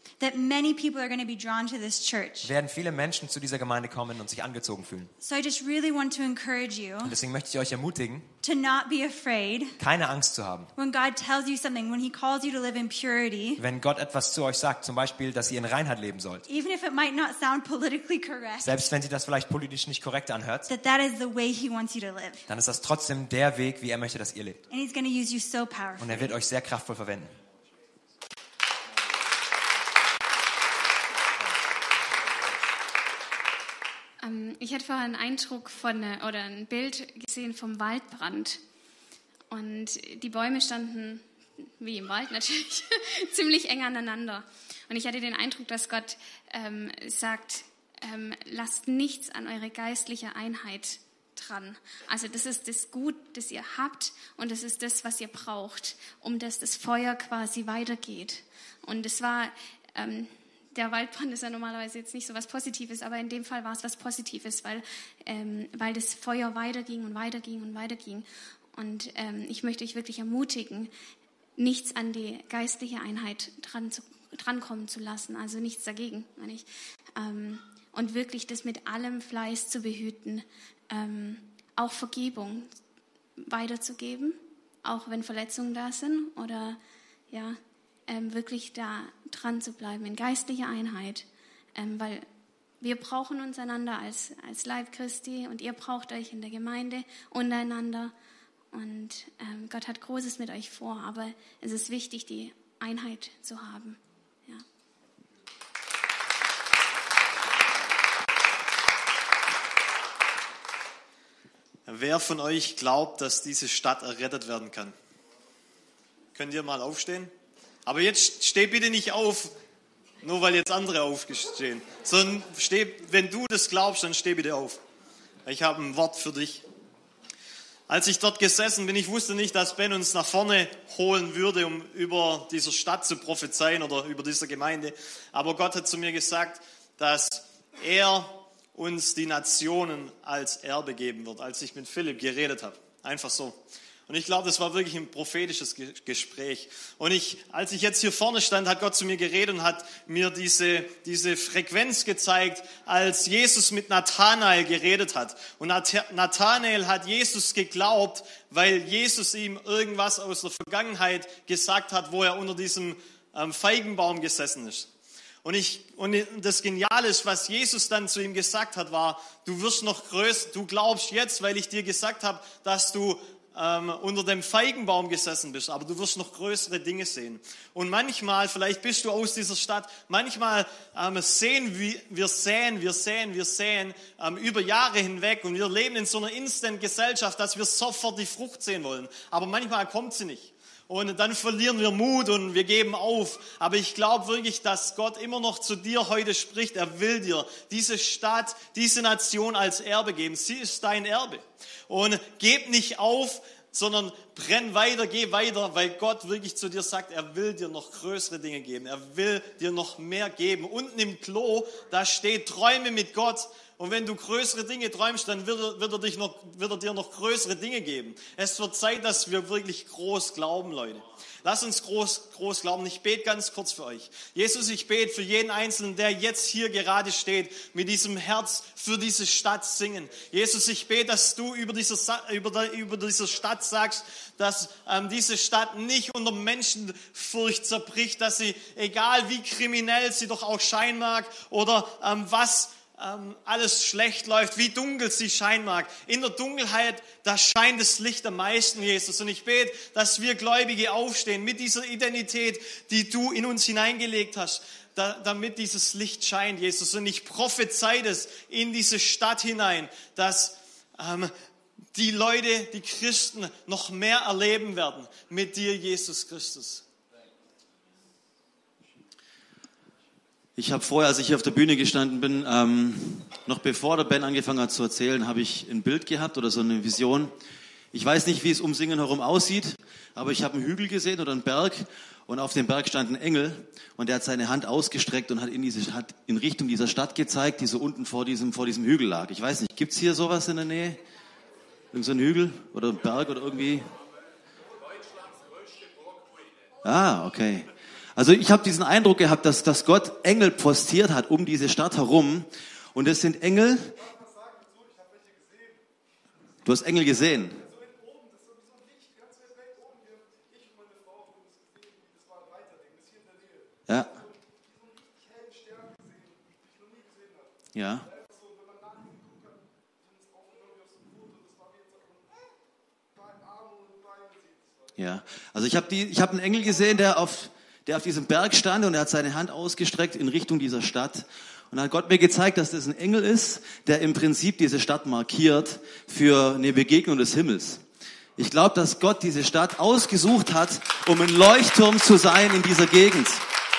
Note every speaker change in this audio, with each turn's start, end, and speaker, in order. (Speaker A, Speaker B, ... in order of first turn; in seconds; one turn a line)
Speaker A: 0.2-2.5
Speaker B: 2.4-5.1
Speaker A: 5.2-7.2
Speaker B: 7.0-8.3
Speaker A: 8.4-9.8
Speaker B: 9.8-10.7
Speaker A: 10.8-13.6
Speaker B: 13.6-16.4
Speaker A: 16.5-18.9
Speaker B: 18.6-20.7
Speaker A: 20.7-22.4
Speaker B: 22.5-24.6
Speaker A: 24.7-26.3
Speaker B: 26.0-27.3
Speaker C: 34.2-38.6
Speaker C: 39.5-41.2
Speaker C: 41.8-70.9
Speaker C: 71.6-82.7
Speaker C: 83.4-86.8
Speaker C: 87.3-92.3
Speaker C: 92.8-98.1
Speaker C: 98.7-104.6
Speaker D: 111.9-115.0
Speaker D: 116.3-117.3
Speaker D: 117.8-119.5
Speaker D: 120.2-124.8
Speaker D: 125.5-126.6
Speaker D: 127.9-164.9
Speaker D: 165.4-261.3
Speaker D: 261.9-266.8
Speaker E: 270.6-277.4
Speaker E: 277.9-291.0
Speaker E: 291.9-293.9
Speaker E: 296.8-304.1
Speaker E: 306.6-307.6
Speaker E: 313.9-314.2
Speaker E: 317.7-318.1
Speaker E: 325.0-337.8
Speaker E: 338.4-343.4